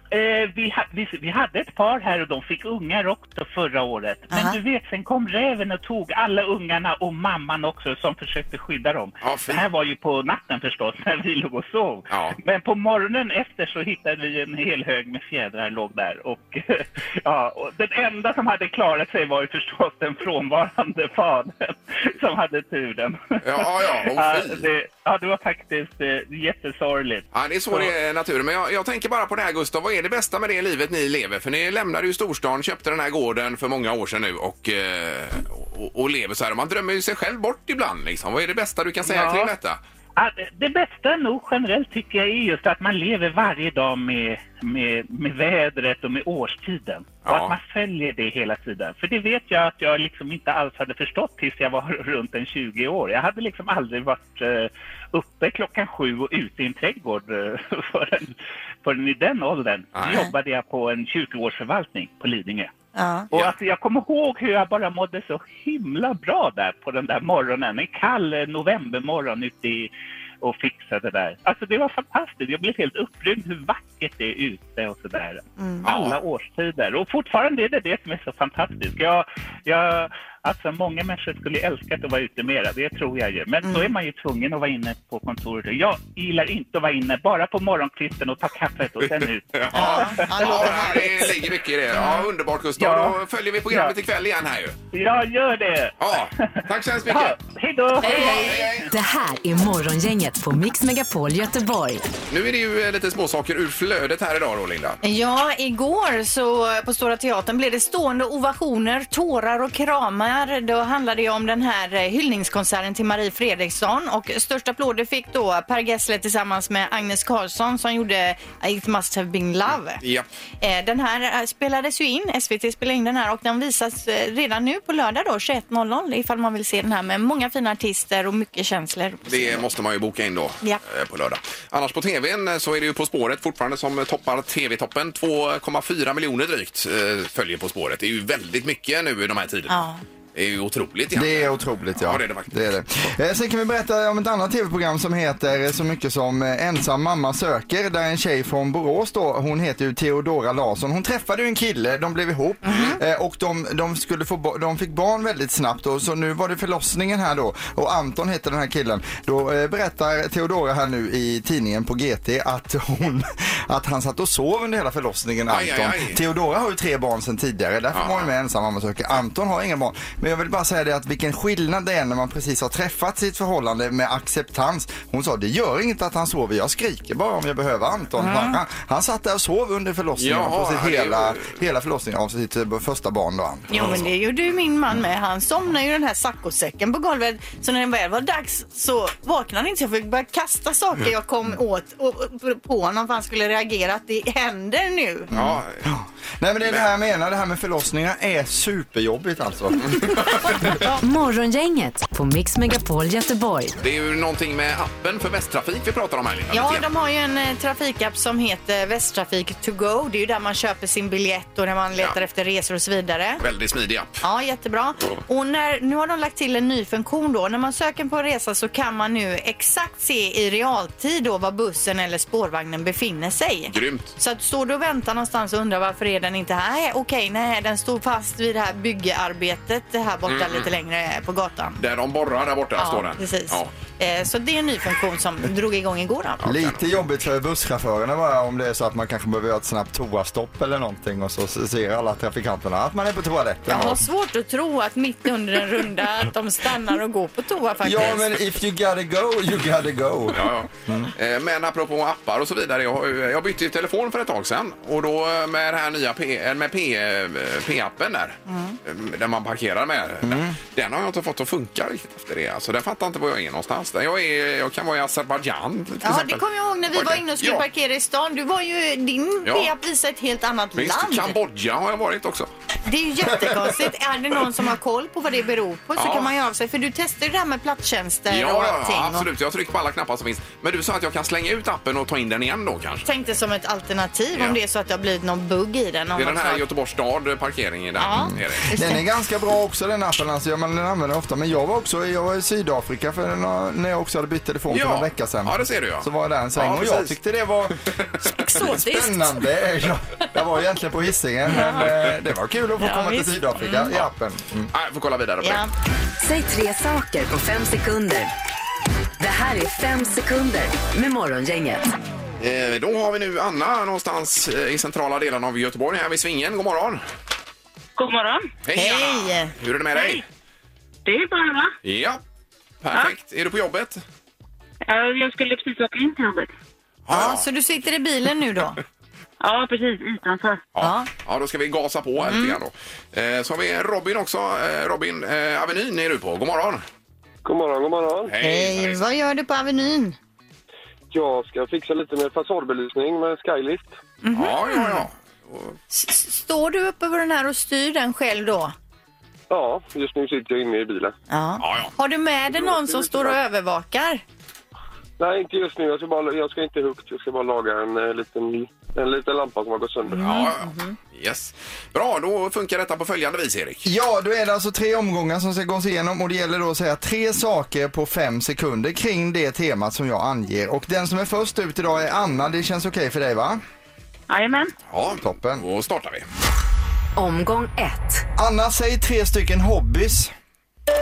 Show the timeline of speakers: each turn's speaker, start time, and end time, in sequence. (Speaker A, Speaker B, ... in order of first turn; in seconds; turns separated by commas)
Speaker A: 0.1-27.9, Speaker B: 4.3-4.6, Speaker C: 9.2-9.6, Speaker C: 12.1-12.4, Speaker C: 23.4-24.7, Speaker C: 27.3-39.8, Speaker A: 39.0-39.5, Speaker A: 40.2-62.7, Speaker C: 47.2-47.6, Speaker C: 60.0-60.3, Speaker B: 63.0-63.3, Speaker A: 63.3-69.9, Speaker A: 70.4-91.3, Speaker B: 75.6-75.9, Speaker C: 75.8-76.2, Speaker B: 83.6-83.9, Speaker C: 89.0-94.8, Speaker B: 89.7-91.4, Speaker B: 91.9-92.3, Speaker A: 92.8-93.2, Speaker A: 93.7-94.0, Speaker A: 94.9-98.7, Speaker C: 96.0-97.4, Speaker B: 98.0-98.6, Speaker C: 98.0-98.9, Speaker D: 98.9-102.0, Speaker C: 102.3-105.0, Speaker B: 105.0-120.0, Speaker C: 120.0-120.3, Speaker B: 120.6-129.7, Speaker C: 129.3-139.8, Speaker B: 139.7-140.0, Speaker C: 140.3-142.5, Speaker E: 141.1-183.8, Speaker B: 152.7-153.0, Speaker C: 152.7-153.0, Speaker C: 165.5-166.2, Speaker C: 167.9-168.3, Speaker B: 178.2-178.6, Speaker C: 180.2-181.5, Speaker B: 183.7-195.3, Speaker C: 183.8-184.1, Speaker C: 195.3-195.9, Speaker E: 195.3-200.1, Speaker C: 196.6-196.9, Speaker C: 200.0-200.5, Speaker B: 200.7-201.0, Speaker D: 201.0-203.8, Speaker C: 203.8-206.8, Speaker B: 206.5-213.4, Speaker C: 213.4-214.2, Speaker B: 214.2-231.8, Speaker C: 223.7-224.1, Speaker C: 230.3-230.7, Speaker C: 231.8-233.7, Speaker B: 232.8-236.5, Speaker C: 236.4-236.9, Speaker E: 236.4-244.0, Speaker B: 243.7-248.2, Speaker E: 247.8-251.1, Speaker C: 250.3-267.6, Speaker B: 258.5-258.8, Speaker E: 260.2-260.6, Speaker B: 266.0-271.4, Speaker C: 269.4-269.7, Speaker C: 270.8-272.5, Speaker B: 272.9-279.3, Speaker C: 276.0-276.3, Speaker C: 278.3-283.1, Speaker B: 283.1-286.6, Speaker C: 286.2-288.7, Speaker B: 288.0-289.0, Speaker E: 288.1-297.8, Speaker C: 294.7-297.2, Speaker B: 298.2-299.4, Speaker E: 298.5-304.7, Speaker B: 301.5-301.9, Speaker B: 302.8-303.9, Speaker C: 304.7-305.6, Speaker B: 305.4-305.7, Speaker D: 306.2-308.3, Speaker D: 309.2-311.9, Speaker C: 312.4-317.0, Speaker F: 318.0-318.5, Speaker C: 318.7-320.2, Speaker B: 318.7-319.5, Speaker F: 319.9-320.2, Speaker F: 321.1-321.8, Speaker C: 321.8-322.2, Speaker C: 322.8-324.0, Speaker F: 324.9-326.5, Speaker C: 327.1-327.5, Speaker B: 327.1-328.8, Speaker F: 329.4-330.6, Speaker C: 330.8-336.9, Speaker B: 330.8-331.1, Speaker B: 332.3-332.6, Speaker G: 337.4-338.3, Speaker C: 338.3-339.0, Speaker B: 338.4-340.2, Speaker G: 341.1-344.0, Speaker B: 344.2-345.0, Speaker C: 344.3-345.8, Speaker B: 345.9-348.7, Speaker G: 349.5-351.1, Speaker B: 351.3-354.2, Speaker C: 351.6-351.9, Speaker G: 352.5-353.4, Speaker G: 355.2-360.3, Speaker B: 360.1-361.0, Speaker C: 360.2-363.9, Speaker E: 363.9-373.6, Speaker F: 374.3-374.7, Speaker C: 374.9-376.3, Speaker E: 375.2-375.6, Speaker D: 377.2-378.2, Speaker E: 378.4-380.3